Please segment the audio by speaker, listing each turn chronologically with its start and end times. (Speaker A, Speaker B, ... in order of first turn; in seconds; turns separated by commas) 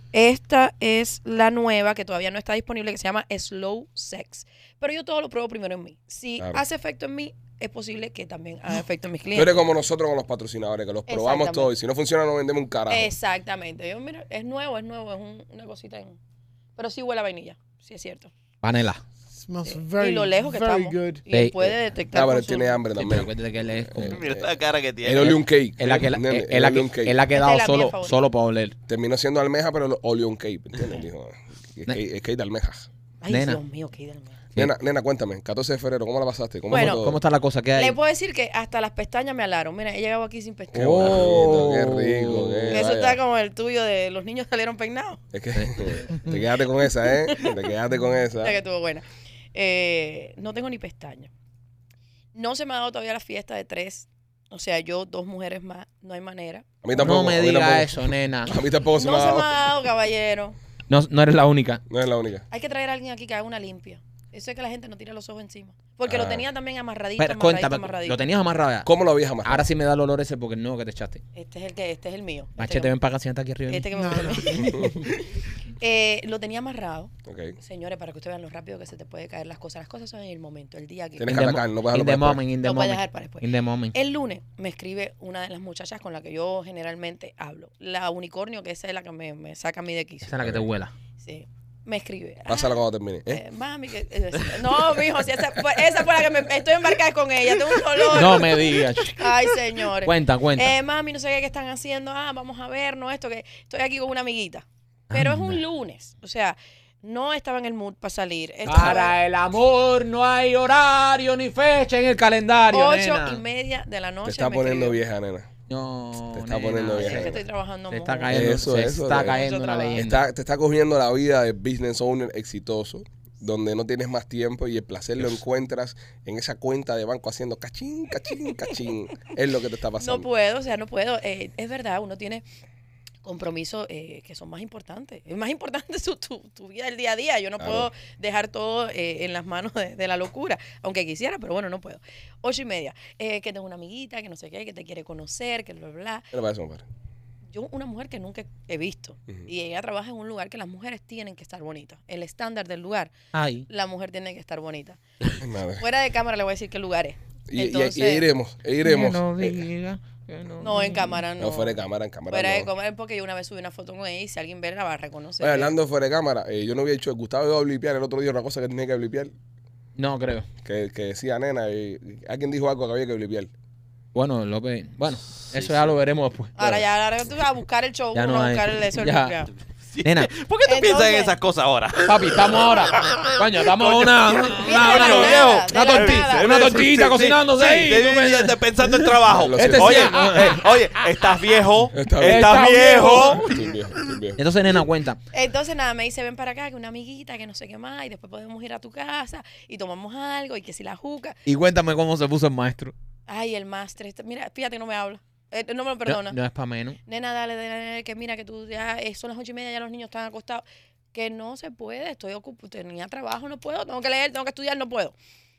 Speaker A: 0.1-9.5, Speaker B: 9.3-13.1, Speaker A: 11.1-11.7, Speaker A: 12.9-16.2, Speaker A: 16.8-18.3, Speaker C: 18.6-19.0, Speaker D: 19.3-21.2, Speaker A: 19.6-22.8, Speaker C: 21.3-21.7, Speaker B: 21.6-24.5, Speaker C: 22.9-24.2, Speaker E: 24.0-25.4, Speaker B: 25.0-27.2, Speaker C: 25.2-28.7, Speaker A: 27.3-28.1, Speaker B: 28.9-32.9, Speaker A: 33.2-34.4, Speaker C: 33.3-33.6, Speaker B: 34.5-37.2, Speaker A: 36.7-37.1, Speaker C: 36.7-38.0, Speaker A: 37.8-41.3, Speaker B: 40.7-43.2, Speaker C: 40.7-42.8, Speaker A: 42.7-45.2, Speaker B: 45.3-48.6, Speaker C: 45.5-45.8, Speaker A: 48.4-51.3, Speaker A: 52.3-56.7, Speaker B: 56.8-59.5, Speaker C: 56.9-58.5, Speaker A: 59.0-60.5, Speaker C: 60.9-61.8, Speaker B: 61.9-62.4, Speaker A: 62.5-68.2, Speaker B: 66.1-66.5, Speaker C: 67.2-68.9, Speaker B: 68.8-69.7, Speaker C: 69.4-71.2, Speaker A: 71.3-72.9, Speaker C: 72.6-74.8, Speaker A: 73.7-74.9, Speaker D: 73.9-74.5, Speaker B: 74.5-75.0, Speaker A: 75.8-81.5, Speaker B: 77.2-77.6, Speaker B: 81.2-82.4, Speaker C: 81.3-83.9, Speaker A: 82.6-90.3, Speaker C: 90.2-90.9, Speaker A: 91.2-92.7, Speaker B: 92.5-93.4, Speaker A: 93.3-109.1, Speaker C: 98.1-99.3, Speaker C: 100.0-100.7, Speaker C: 105.1-105.6, Speaker C: 108.6-113.4, Speaker A: 112.7-115.0, Speaker B: 114.2-115.5, Speaker C: 115.7-117.3, Speaker B: 116.3-117.4, Speaker A: 116.9-118.6, Speaker C: 117.9-120.2, Speaker B: 118.3-119.4, Speaker A: 119.2-120.0, Speaker B: 120.0-130.3, Speaker A: 130.0-132.4, Speaker A: 133.2-146.3, Speaker B: 137.6-137.9, Speaker B: 146.3-146.8, Speaker A: 147.5-153.1, Speaker C: 153.3-153.7, Speaker A: 153.7-155.0, Speaker B: 155.4-155.8, Speaker A: 155.8-158.2, Speaker B: 157.5-159.7, Speaker C: 158.8-161.1, Speaker A: 160.6-161.8, Speaker B: 161.4-162.7, Speaker A: 162.3-165.7, Speaker B: 165.4-169.3, Speaker C: 169.9-170.5, Speaker B: 170.6-173.5, Speaker C: 174.1-176.8, Speaker E: 175.5-175.9, Speaker A: 176.6-179.5, Speaker C: 178.1-179.3, Speaker E: 179.9-193.7, Speaker C: 180.0-180.3, Speaker A: 180.6-181.3, Speaker C: 182.0-190.7, Speaker A: 184.6-186.6, Speaker B: 189.3-190.2, Speaker B: 191.9-194.4, Speaker C: 192.2-193.4, Speaker C: 194.4-195.2, Speaker A: 195.3-201.4, Speaker C: 201.4-202.9, Speaker A: 203.3-206.4, Speaker C: 206.1-207.0, Speaker A: 207.1-215.1